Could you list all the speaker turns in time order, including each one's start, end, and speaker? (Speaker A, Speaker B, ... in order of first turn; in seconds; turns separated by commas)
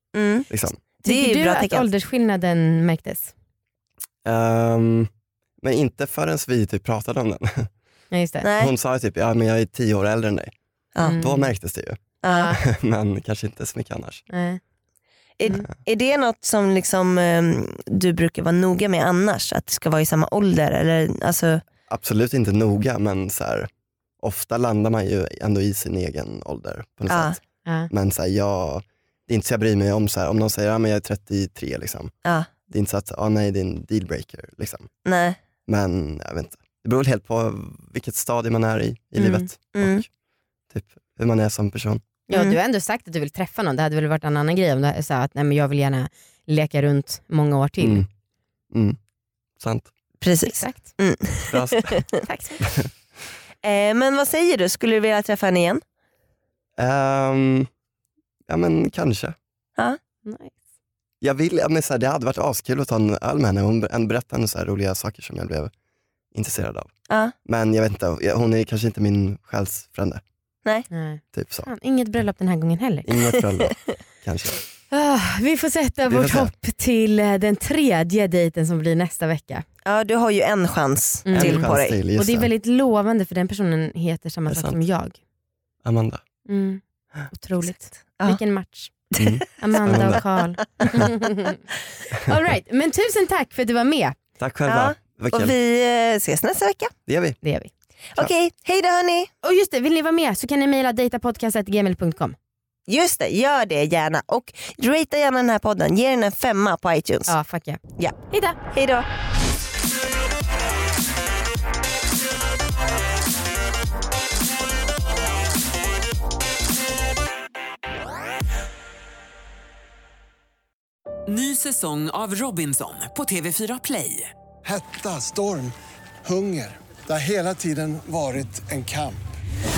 Speaker A: 0.1-0.5, Speaker B: 0.5-0.8, Speaker A: 1.0-1.9, Speaker C: 1.0-3.3, Speaker B: 4.2-5.1, Speaker B: 5.6-7.7, Speaker C: 8.1-8.5, Speaker A: 8.4-8.7, Speaker B: 8.6-10.5, Speaker A: 10.9-11.2, Speaker C: 11.0-11.5, Speaker B: 11.1-12.0, Speaker A: 12.2-12.5, Speaker C: 12.2-12.6, Speaker B: 12.5-14.2, Speaker C: 14.3-14.6, Speaker A: 15.4-21.6, Speaker B: 21.9-23.7, Speaker B: 24.2-32.1, Speaker A: 27.1-27.4, Speaker A: 32.2-32.5, Speaker B: 32.7-34.9, Speaker A: 35.0-35.4, Speaker B: 35.7-40.1, Speaker A: 39.2-40.0, Speaker B: 40.7-42.0, Speaker C: 42.3-48.0, Speaker A: 42.3-42.6, Speaker B: 47.8-48.1, Speaker B: 48.7-49.0, Speaker B: 49.6-49.9, Speaker A: 50.2-52.1, Speaker C: 50.5-51.0, Speaker B: 51.5-52.0, Speaker C: 52.2-52.6, Speaker A: 53.6-55.8, Speaker B: 56.8-57.7, Speaker B: 58.5-59.3, Speaker C: 60.2-60.5, Speaker B: 61.2-65.7, Speaker B: 66.3-66.9, Speaker A: 67.1-67.3, Speaker B: 67.4-70.2, Speaker C: 70.9-73.1, Speaker B: 71.3-71.7, Speaker B: 73.0-74.6, Speaker C: 74.9-79.6, Speaker B: 76.1-76.5, Speaker A: 79.8-82.0, Speaker C: 81.2-85.2, Speaker B: 81.3-82.5, Speaker B: 84.5-84.8, Speaker B: 85.8-86.2, Speaker C: 86.5-91.6, Speaker B: 89.2-90.2, Speaker C: 92.2-94.2, Speaker B: 94.4-95.5, Speaker A: 94.7-96.9, Speaker B: 97.1-97.4, Speaker C: 97.4-97.7, Speaker A: 98.1-99.3, Speaker C: 99.4-102.3, Speaker A: 102.9-107.3, Speaker C: 107.3-107.8, Speaker A: 108.0-109.1, Speaker C: 108.3-108.6, Speaker D: 121.3-124.3, Speaker E: 124.6-129.2